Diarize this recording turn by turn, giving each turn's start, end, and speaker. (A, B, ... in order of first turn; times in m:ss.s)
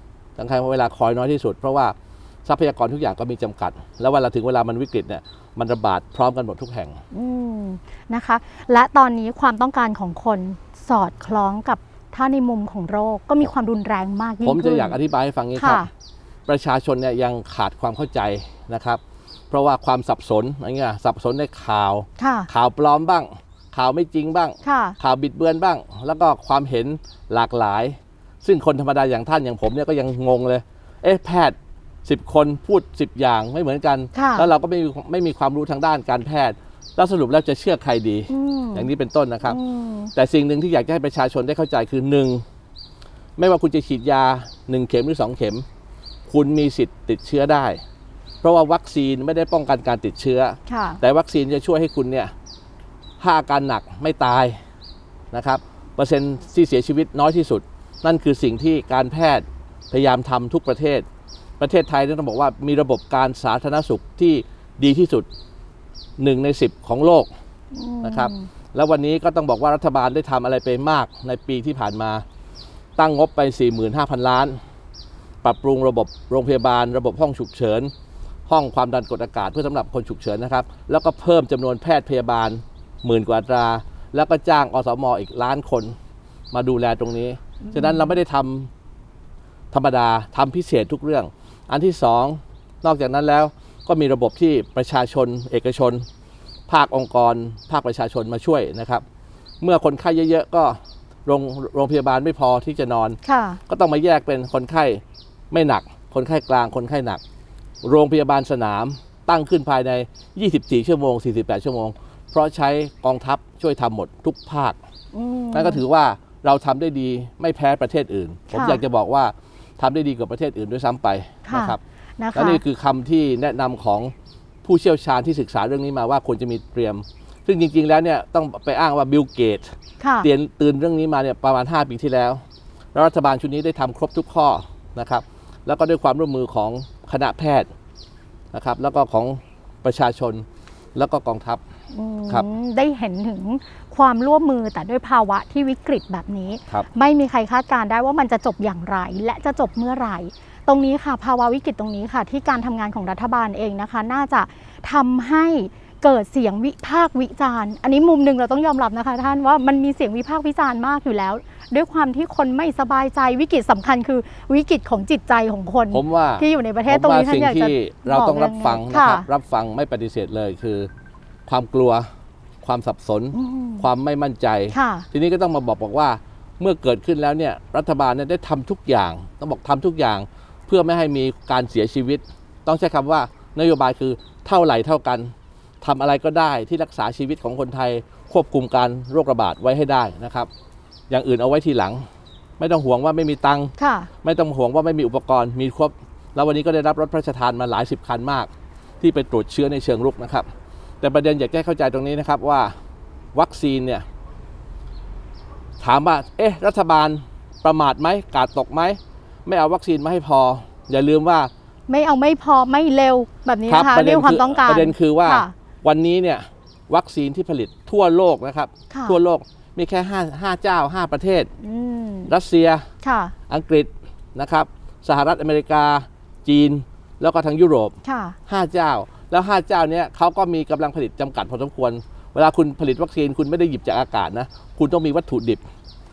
0:00.4-0:07.0 A
0:07.1-0:15.0 B
0:14.4-0:15.9 A
0:15.5-0:15.9 B
0:16.4-0:39.6 A
0:22.2-0:22.5 B
0:24.6-0:25.0 B
0:34.1-0:34.5 B
0:38.3-0:38.9 B
0:39.4-0:40.1 B
0:40.1-0:42.4 A
0:43.4-0:45.6 A
0:46.3-0:47.8 A
0:48.4-0:52.3 A
0:50.7-0:51.0 B
0:53.2-0:54.6 A
0:55.3-1:01.0 A
1:01.6-1:05.3 A
1:06.2-1:07.3 A
1:07.7-1:08.5 B
1:08.0-1:12.2 A
1:13.0-1:14.6 A
1:15.4-1:17.9 A
1:18.5-1:25.9 A
1:26.5-1:28.7 A
1:27.6-1:28.2 B
1:29.7-1:36.0 A
1:36.7-1:39.0 A
1:39.6-1:43.2 A
1:43.2-1:43.6 B
1:43.7-1:47.2 A
1:47.8-1:54.8 A
1:55.1-1:55.8 B
1:55.5-2:01.8 A
1:58.5-1:58.8 B
2:01.4-2:02.6 B
2:02.3-2:04.1 A
2:04.6-2:12.4 A
2:10.0-2:10.3 B
2:12.9-2:17.7 A
2:18.5-2:21.6 A
2:21.9-2:49.3 B
2:45.9-2:50.9 A
2:51.5-2:52.1 A
2:52.6-3:10.5 A
2:53.3-2:53.9 B
2:54.7-2:55.1 B
3:11.1-3:12.0 A
3:12.6-3:13.7 A
3:13.8-3:14.1 B
3:14.2-3:18.5 A
3:19.0-3:20.5 A
3:21.0-3:22.7 A
3:23.3-3:24.0 A
3:25.8-3:31.5 A
3:31.9-3:35.5 B
3:33.7-3:41.5 A
3:38.9-3:39.2 B
3:41.6-3:42.3 B
3:42.3-3:42.9 A
3:43.0-3:43.3 B
3:43.5-3:47.9 A
3:48.0-3:48.4 B
3:48.5-3:55.6 A